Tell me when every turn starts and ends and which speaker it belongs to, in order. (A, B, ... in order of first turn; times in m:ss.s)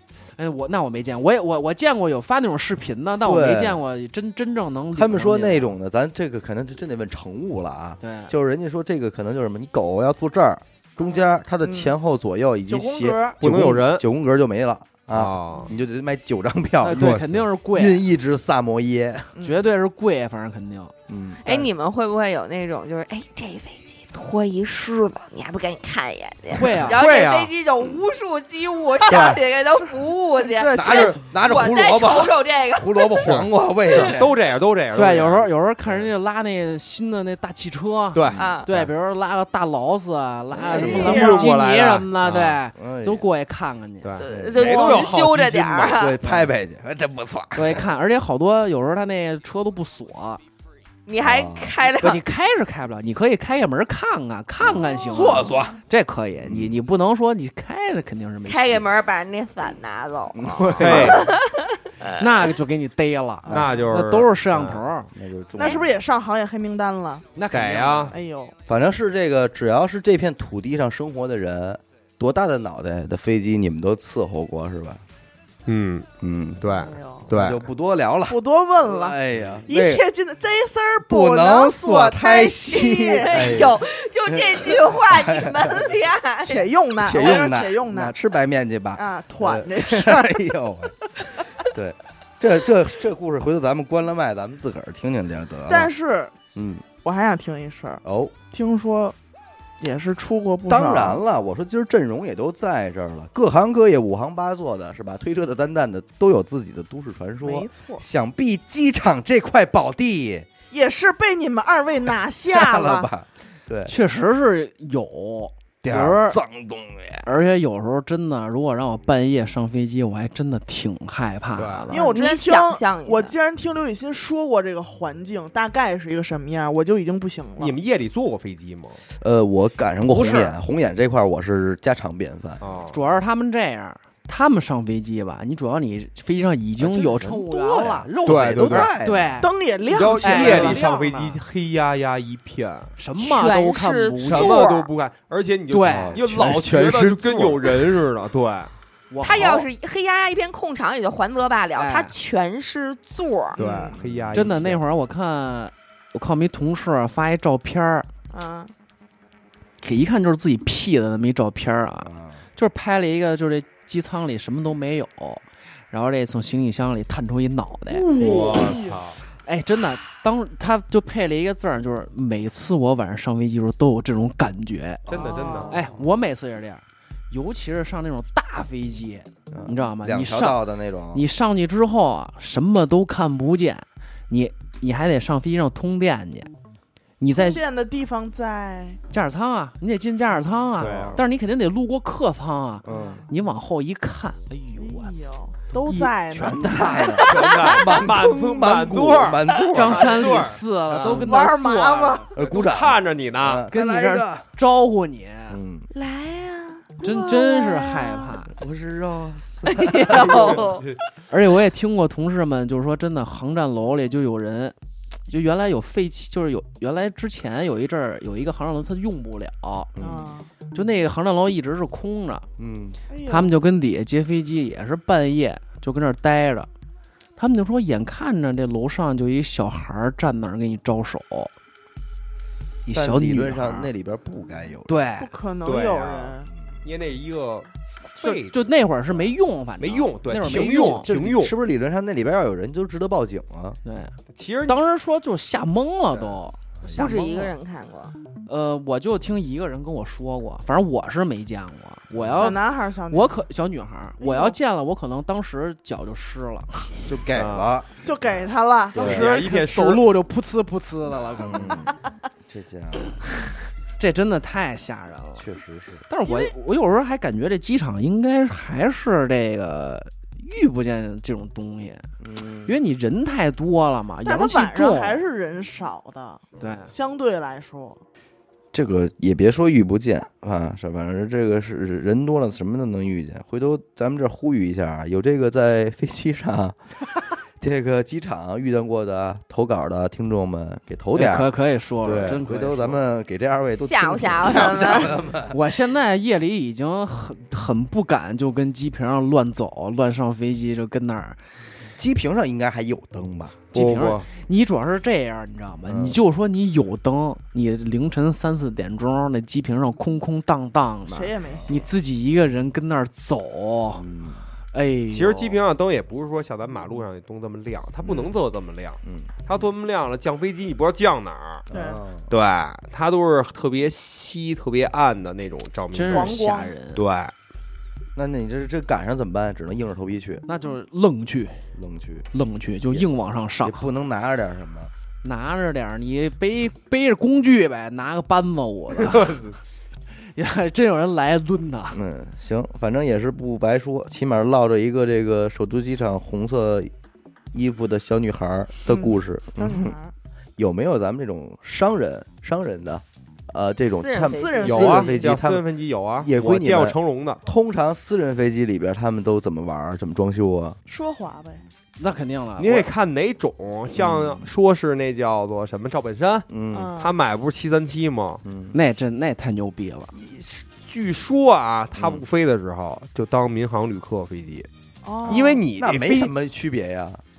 0:00.4-0:05.8 A
0:03.2-0:03.8 B
0:05.0-0:19.3 B
0:08.0-0:08.3 A
0:11.0-0:11.9 C
0:12.7-0:13.4 C
0:13.4-0:14.1 D
0:15.1-0:15.7 D
0:16.8-0:18.1 A
0:16.9-0:17.4 D
0:19.4-0:19.6 C
0:19.4-0:20.9 A
0:21.1-0:21.6 B
0:21.4-0:33.3 E
0:26.5-0:27.0 A
0:26.9-0:27.5 D
0:29.1-0:29.4 D
0:30.6-0:31.2 A
0:30.7-0:34.4 B
0:33.2-0:35.5 D
0:35.0-0:44.1 A
0:38.1-0:38.5 D
0:38.3-0:38.9 B
0:38.4-0:38.7 E
0:40.7-0:41.2 B
0:40.7-0:41.6 C
0:40.8-0:42.6 D
0:42.8-0:43.2 B
0:44.0-0:45.4 D
0:44.2-0:46.2 E
0:44.3-0:47.8 B
0:47.6-0:50.4 A
0:51.1-0:52.2 E
0:51.2-0:51.8 B
0:52.0-0:58.9 A
0:54.7-0:55.8 B
0:56.4-0:56.8 B
0:58.4-1:02.5 E
1:00.3-1:01.2 B
1:00.8-1:01.2 D
1:02.2-1:05.1 A
1:03.5-1:03.8 C
1:03.5-1:04.8 D
1:05.1-1:05.9 B
1:05.6-1:07.3 C
1:07.4-1:08.1 A
1:07.5-1:08.2 D
1:08.1-1:08.6 C
1:08.7-1:15.0 B
1:15.7-1:16.1 D
1:16.2-1:16.7 B
1:16.6-1:17.6 D
1:16.8-1:17.3 C
1:17.3-1:20.0 B
1:18.3-1:23.7 C
1:21.1-1:25.8 B
1:22.9-1:26.7 E
1:26.4-1:28.2 C
1:27.0-1:31.0 B
1:29.0-1:30.5 C
1:31.6-1:35.9 B
1:35.7-1:36.4 C
1:36.5-1:36.9 B
1:37.0-1:39.2 C
1:38.0-1:38.4 B
1:39.8-1:41.2 C
1:40.7-1:50.5 B
1:47.4-1:48.0 C
1:50.7-1:53.1 C
1:52.5-1:53.9 B
1:53.9-1:56.4 A
1:55.8-1:57.3 B
1:57.2-2:02.0 A
2:01.6-2:01.9 D
2:01.9-2:07.8 C
2:01.9-2:03.3 E
2:07.6-2:09.0 D
2:09.2-2:12.6 B
2:10.1-2:10.5 A
2:12.6-2:13.0 D
2:12.9-2:19.5 A
2:16.8-2:19.4 B
2:18.2-2:18.9 D
2:19.4-2:21.1 C
2:19.9-2:22.9 D
2:20.2-2:21.4 A
2:23.0-2:24.6 A
2:23.2-2:24.9 E
2:24.3-2:28.7 D
2:25.7-2:26.2 A
2:25.9-2:28.0 B
2:29.1-2:29.7 A
2:29.2-2:33.6 E
2:31.8-2:32.1 A
2:33.6-2:34.8 D
2:33.6-2:34.0 C
2:33.9-2:34.4 B
2:34.3-2:38.1 A
2:38.3-2:38.7 E
2:39.8-2:48.1 A
2:42.0-2:42.4 B
2:48.1-2:49.0 C
2:48.2-2:49.2 D
2:48.2-2:48.8 B
2:49.5-2:55.1 A
2:55.1-2:55.8 D
2:55.1-2:55.8 C
2:55.7-3:06.5 A
2:59.5-3:01.2 B
3:07.2-3:07.6 A
3:07.3-3:09.0 C
3:09.1-3:15.2 A
3:10.8-3:11.2 D
3:10.8-3:11.2 B
3:12.8-3:13.2 B
3:12.9-3:13.2 C
3:14.8-3:17.2 C
3:15.7-3:17.3 A
3:16.3-3:20.4 B
3:17.2-3:21.3 D
3:17.5-3:17.8 E
3:19.7-3:22.3 A
3:21.1-3:22.3 C
3:22.4-3:24.4 B
3:22.4-3:23.7 D
3:23.7-3:25.6 A
3:25.5-3:25.9 B
3:25.9-3:28.2 E
3:27.0-3:28.5 A
3:28.5-3:30.9 B
3:29.7-3:31.0 E
3:31.3-3:34.8 A
3:35.3-3:39.9 A
3:40.0-3:40.3 B
3:40.0-3:40.5 C
3:40.7-3:42.5 A
3:42.6-3:43.0 B
3:43.1-3:43.6 C
3:43.3-3:46.7 A
3:47.4-3:51.5 A
3:52.9-3:53.9 A
3:52.9-3:54.9 B
3:54.9-3:55.3 A
3:55.2-3:56.5 C
3:55.6-3:58.7 D
3:56.5-3:56.8 B
3:58.2-4:01.1 A
3:59.8-4:01.6 D
4:00.4-4:03.8 B
4:03.8-4:07.5 A
4:04.3-4:04.8 D
4:06.9-4:08.1 E
4:08.5-4:17.1 A
4:12.1-4:12.4 B
4:12.3-4:13.4 C
4:14.2-4:14.6 C
4:17.1-4:17.9 B
4:17.3-4:17.7 D
4:18.0-4:19.2 C
4:19.0-4:19.3 B
4:19.0-4:21.9 A
4:19.0-4:20.1 D
4:21.2-4:21.9 B
4:22.5-4:23.2 B
4:24.0-4:25.5 A
4:25.4-4:26.0 B
4:26.1-4:32.1 A
4:26.3-4:26.5 C
4:32.2-4:32.8 B
4:32.7-4:35.2 A
4:34.2-4:38.0 C
4:36.6-4:36.9 A
4:38.7-4:46.8 B
4:47.6-4:51.5 B
4:51.1-4:53.0 A
4:52.0-4:55.6 B
4:53.8-4:55.2 E
4:55.5-5:01.4 A
5:02.0-5:03.7 B
5:03.7-5:14.0 A
5:03.7-5:04.3 D
5:05.9-5:06.2 B
5:11.1-5:11.9 C
5:14.0-5:14.4 B
5:14.7-5:15.6 A
5:15.1-5:21.7 D
5:18.0-5:18.3 B
5:19.0-5:19.4 B
5:21.7-5:22.3 B
5:21.7-5:22.0 C
5:22.3-5:26.4 D
5:25.9-5:27.0 A
5:26.1-5:26.8 C
5:26.9-5:27.3 D
5:28.2-5:30.4 B
5:30.5-5:31.6 A
5:31.8-5:32.3 B
5:32.3-5:33.8 A
5:33.6-5:34.9 B
5:35.2-5:39.4 A
5:39.0-5:39.6 D
5:40.4-5:42.0 A
5:41.9-5:46.9 B
5:47.5-5:50.0 B
5:48.9-5:50.1 C
5:50.6-5:55.6 B
5:53.9-5:54.8 E
5:54.2-5:55.2 C
5:54.6-5:57.4 D
5:56.2-6:00.8 B
6:00.9-6:01.6 C
6:02.0-6:02.9 A
6:02.6-6:08.4 D
6:03.9-6:04.5 B
6:06.5-6:06.9 B
6:06.7-6:07.1 C
6:08.4-6:08.8 B
6:08.7-6:10.1 A
6:10.1-6:14.7 D
6:12.0-6:12.2 B
6:15.0-6:15.6 C
6:15.3-6:17.2 B
6:15.3-6:16.3 D